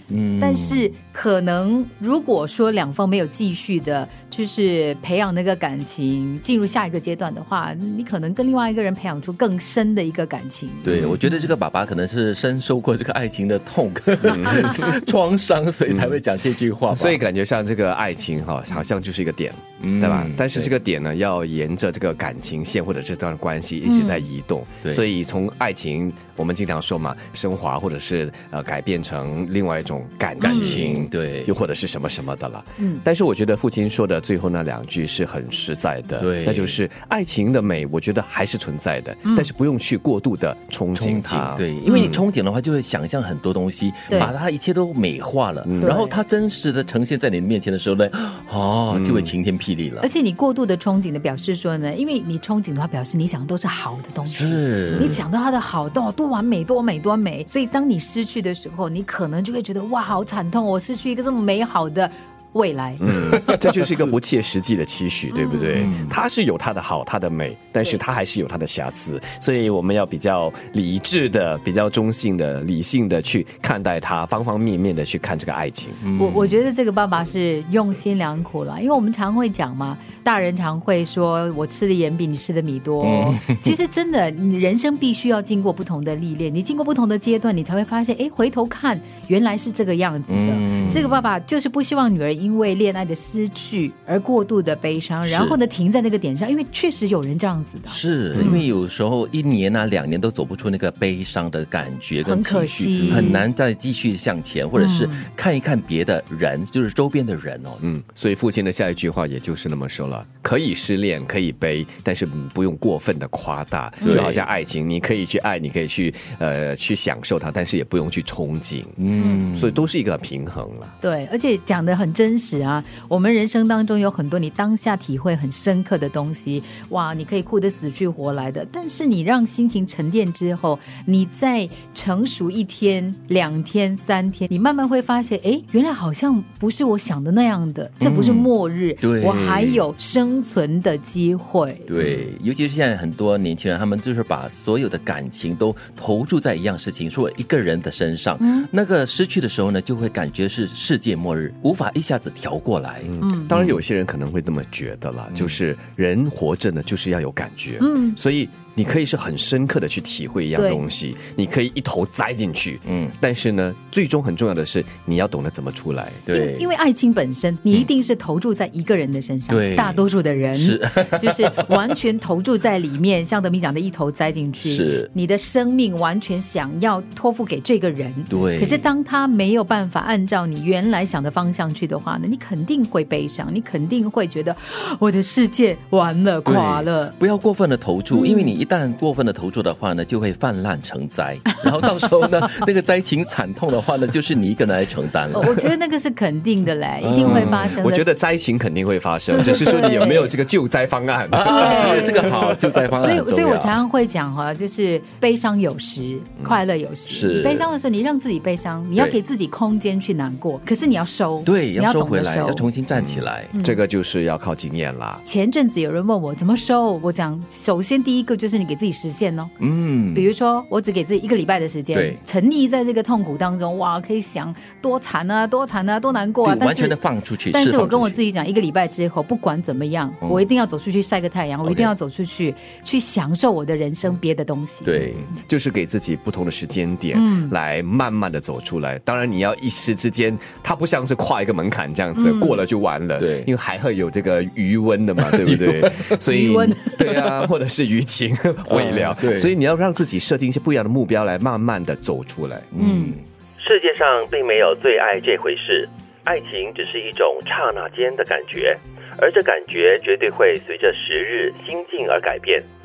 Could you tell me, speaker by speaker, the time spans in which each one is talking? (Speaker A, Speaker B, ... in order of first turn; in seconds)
Speaker A: 0.1-0.9, 10.8-17.2, 19.8-20.7, 30.4-31.5, 36.2-36.8, 40.9-50.1, 54.3-55.2, 63.3-64.1, 65.7-66.1, 76.0-76.6, 83.0-83.7, 90.3-91.2, 95.2-95.6, 97.9-107.8, 114.0-114.4, 119.0-119.8, 138.0-139.8, 141.9-153.8, 155.3-155.6, 162.8-163.2, 166.3-166.7, 169.5-171.8, 174.6-175.1, 178.3-178.9, 186.4-195.7, 197.0-197.8, 199.5-199.8, 201.3-203.8, 207.1-207.7, 211.4-213.5, 219.6-220.3, 221.9-222.2, 226.4-228.2, 231.6-231.9, 234.8-235.3, 243.2-243.5, 245.2-246.1, 248.7-249.5, 252.7-253.2
Speaker B: 0.4-11.1, 23.8-24.3, 30.4-30.8, 32.8-33.0, 39.2-39.5, 41.9-42.1, 45.8-46.2, 50.0-63.0, 65.3-66.0, 76.2-98.6, 102.2-103.4, 104.8-105.2, 114.0-114.3, 119.2-119.5, 121.0-142.2, 148.4-148.7, 153.2-153.5, 157.8-158.2, 160.6-160.8, 166.3-187.1, 188.1-188.5, 195.3-198.1, 199.3-200.3, 201.4-202.3, 202.9-212.7, 213.5-213.8, 215.2-219.5, 220.1-227.0, 227.5-235.4, 237.1-237.5, 242.2-242.6, 246.2-247.2, 252.8-253.2
Speaker C: 14.3-14.9, 15.9-16.2, 16.9-42.2, 45.6-46.0, 48.9-49.3, 63.0-76.0, 102.9-103.4, 107.8-119.0, 119.5-120.9, 153.1-166.3, 197.2-202.5, 212.9-215.2, 235.4-252.7
Speaker D: 253.6-262.7